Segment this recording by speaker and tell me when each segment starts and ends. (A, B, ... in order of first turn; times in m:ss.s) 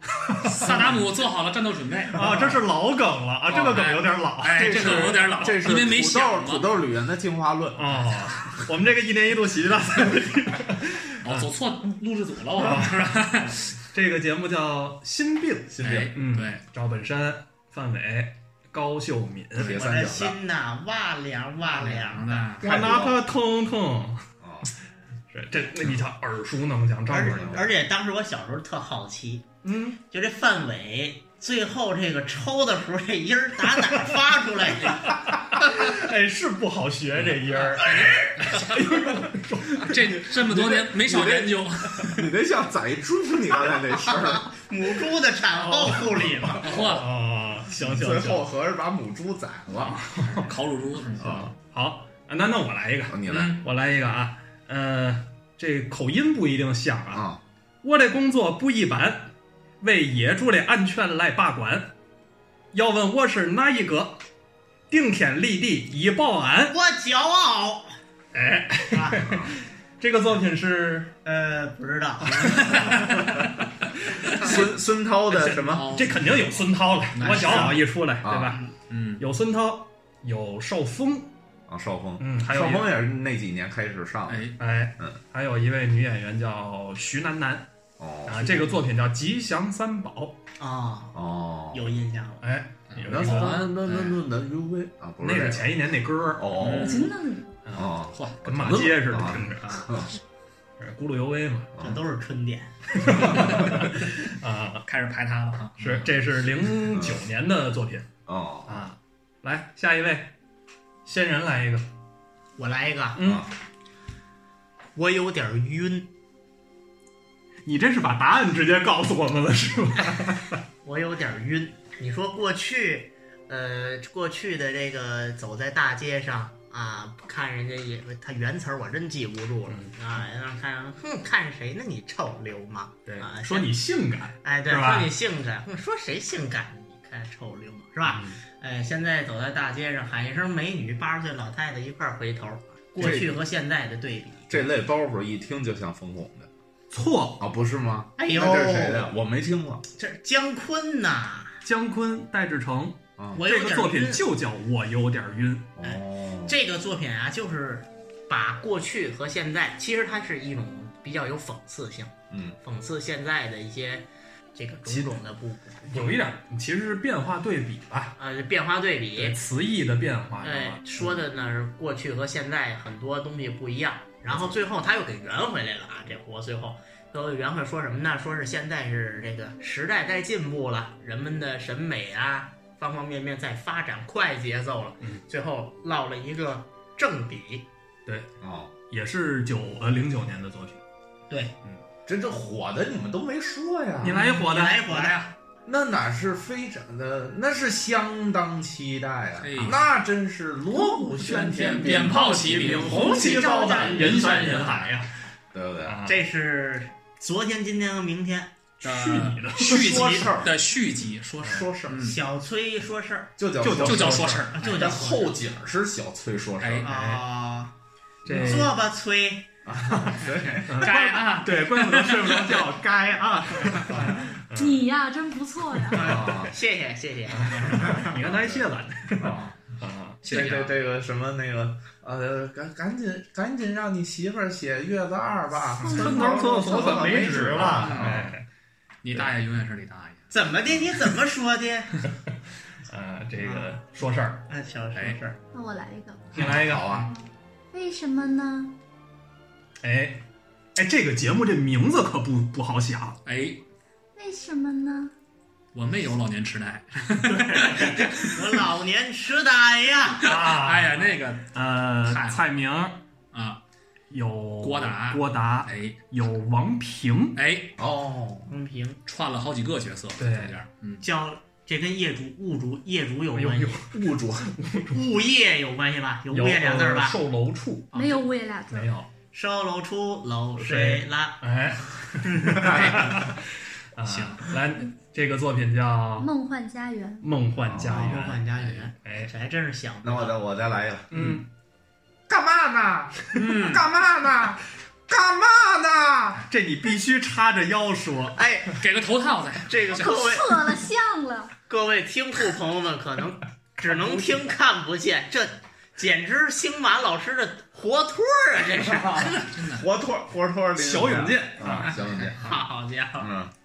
0:00.2-0:00.8 A
0:00.5-0:02.5 B
0:02.1-0:05.2 A
0:03.5-0:06.9 B
0:04.5-0:08.6 C
0:07.8-0:11.5 A
0:11.2-0:13.7 B
0:12.6-0:19.8 A
0:15.8-0:16.1 C
0:15.8-0:16.6 B
0:19.6-0:20.4 C
0:19.7-0:22.6 D
0:21.7-0:22.6 B
0:22.6-0:23.3 C
0:22.6-0:24.2 A
0:24.4-0:24.7 C
0:25.3-0:27.6 A
0:27.1-0:29.5 D
0:27.2-0:27.7 C
0:29.6-0:30.0 A
0:30.0-0:35.2 D
0:35.5-0:40.0 A
0:37.8-0:38.9 B
0:37.9-0:38.3 D
0:39.9-0:42.1 B
0:39.9-0:44.5 C
0:44.5-0:46.9 D
0:45.5-0:47.1 B
0:46.7-0:48.5 A
0:47.7-0:50.0 C
0:49.8-0:50.5 A
0:50.2-0:51.4 B
0:51.2-0:51.5 C
0:51.2-0:57.2 A
0:53.1-0:53.6 C
0:57.1-0:57.4 C
0:57.8-1:01.9 A
1:02.7-1:04.2 A
1:04.9-1:06.8 A
1:06.7-1:08.0 D
1:08.3-1:11.2 A
1:08.9-1:09.4 D
1:09.2-1:09.5 C
1:11.2-1:13.1 D
1:12.4-1:14.6 A
1:14.4-1:16.1 C
1:15.3-1:18.6 A
1:15.6-1:17.8 B
1:17.2-1:17.8 D
1:18.2-1:18.6 C
1:18.5-1:18.7 D
1:18.9-1:19.2 B
1:19.2-1:21.3 A
1:21.7-1:25.2 C
1:22.2-1:22.9 A
1:24.3-1:24.6 B
1:24.6-1:27.7 A
1:28.0-1:28.7 C
1:28.2-1:30.4 A
1:30.6-1:31.2 D
1:31.1-1:32.0 C
1:31.7-1:32.5 D
1:32.4-1:33.7 A
1:32.9-1:34.2 B
1:33.1-1:35.8 C
1:35.2-1:36.6 A
1:36.4-1:37.1 C
1:36.6-1:37.2 B
1:36.8-1:37.5 E
1:37.6-1:39.9 A
1:37.8-1:40.1 C
1:38.1-1:38.4 B
1:40.8-1:41.7 A
1:41.7-1:42.0 C
1:41.8-1:42.7 D
1:43.0-1:44.8 A
1:43.1-1:43.9 C
1:44.9-1:46.1 B
1:45.8-1:48.1 A
1:46.9-1:47.2 C
1:48.3-1:48.8 C
1:48.7-1:50.3 A
1:51.0-1:51.9 A
1:52.6-1:53.3 D
1:53.2-1:53.4 A
1:53.2-1:53.5 C
1:55.0-1:56.1 D
1:57.6-2:00.6 A
2:00.8-2:13.8 D
2:09.7-2:10.2 A
2:13.1-2:15.1 A
2:14.4-2:24.7 D
2:18.0-2:18.4 A
2:23.0-2:23.4 C
2:24.5-2:26.5 C
2:26.9-2:27.4 A
2:27.4-2:29.8 C
2:28.2-2:29.2 D
2:30.0-2:31.6 D
2:31.6-2:35.7 A
2:33.2-2:33.4 C
2:33.3-2:34.3 D
2:35.8-2:36.6 C
2:35.8-2:46.2 D
2:42.3-2:42.6 C
2:44.8-2:45.2 A
2:45.9-2:48.2 A
2:48.2-2:49.4 D
2:49.2-2:50.8 A
2:50.4-3:07.7 D
3:08.4-3:08.7 C
3:08.9-3:10.8 A
3:11.3-3:11.6 D
3:12.1-3:14.4 C
3:14.0-3:14.8 A
3:14.1-3:15.3 D
3:14.8-3:15.3 B
3:15.7-3:24.8 C
3:19.4-3:19.9 B
3:20.8-3:21.1 E
3:21.4-3:23.2 B
3:21.8-3:25.1 A
3:23.0-3:24.8 D
3:23.2-3:23.8 E
3:24.0-3:24.8 B
3:25.5-3:26.0 C
3:25.8-3:26.2 A
3:26.0-3:28.6 D
3:28.8-3:30.3 A
3:28.8-3:32.2 B
3:29.6-3:30.5 C
3:31.4-3:33.3 D
3:33.4-3:36.9 C
3:33.6-3:34.6 A
3:33.8-3:35.1 B
3:34.6-3:35.3 D
3:36.6-3:36.9 B
3:36.8-3:37.7 D
3:36.9-3:37.2 A
3:38.2-3:38.8 A
3:38.3-3:39.5 D
3:38.3-3:38.6 C
3:39.6-3:41.0 C
3:40.4-3:42.6 B
3:40.7-3:44.9 A
3:44.5-3:46.2 E
3:46.0-3:48.1 D
3:46.0-3:46.5 C
3:46.1-3:46.4 A
3:47.5-3:50.2 A
3:48.0-3:48.7 C
3:49.2-3:49.6 C
3:50.2-3:58.4 C
3:50.2-3:50.8 B
3:55.8-3:57.2 E
3:55.8-3:58.4 A
3:57.6-3:58.1 B
3:59.0-4:00.3 B
4:00.3-4:02.1 D
4:02.9-4:04.5 A
4:03.4-4:03.8 D
4:04.5-4:05.4 D
4:04.9-4:05.2 B
4:05.5-4:06.4 E
4:06.4-4:07.0 A
4:06.4-4:07.1 C
4:07.0-4:08.8 E
4:09.8-4:13.2 A
4:13.2-4:13.6 B
4:14.2-4:15.1 E
4:15.7-4:18.1 B
4:17.3-4:20.3 D
4:20.2-4:23.0 A
4:20.3-4:22.5 B
4:23.3-4:23.6 B
4:24.1-4:27.4 A
4:24.6-4:26.0 B
4:27.4-4:27.8 B
4:27.8-4:28.5 C
4:28.5-4:29.0 D
4:29.1-4:31.1 B
4:30.2-4:30.5 A
4:31.0-4:33.8 D
4:33.3-4:35.0 A
4:33.9-4:34.5 C
4:34.9-4:37.2 D
4:36.3-4:37.9 A
4:37.9-4:38.2 D
4:37.9-4:38.9 E
4:38.7-4:39.1 A
4:39.3-4:41.5 D
4:40.6-4:43.4 A
4:42.2-4:43.0 D
4:42.6-4:43.2 C
4:44.0-4:46.3 A
4:44.0-4:44.5 B
4:46.2-4:47.3 E
4:47.2-4:48.4 A
4:47.6-4:48.2 C
4:47.9-4:50.4 D
4:48.6-4:48.9 B
4:49.0-4:49.3 A
4:50.0-4:51.4 C
4:51.1-4:51.5 A
4:52.3-4:56.4 C
4:53.3-4:53.8 B
4:56.5-4:58.4 A
4:58.4-4:58.8 D
4:58.8-5:00.1 B
4:59.7-5:00.6 D
4:59.9-5:01.5 E
5:01.7-5:09.6 D
5:03.9-5:04.2 A
5:09.5-5:09.9 B
5:09.6-5:12.5 C
5:10.8-5:12.0 A
5:12.4-5:13.3 D
5:13.2-5:13.5 C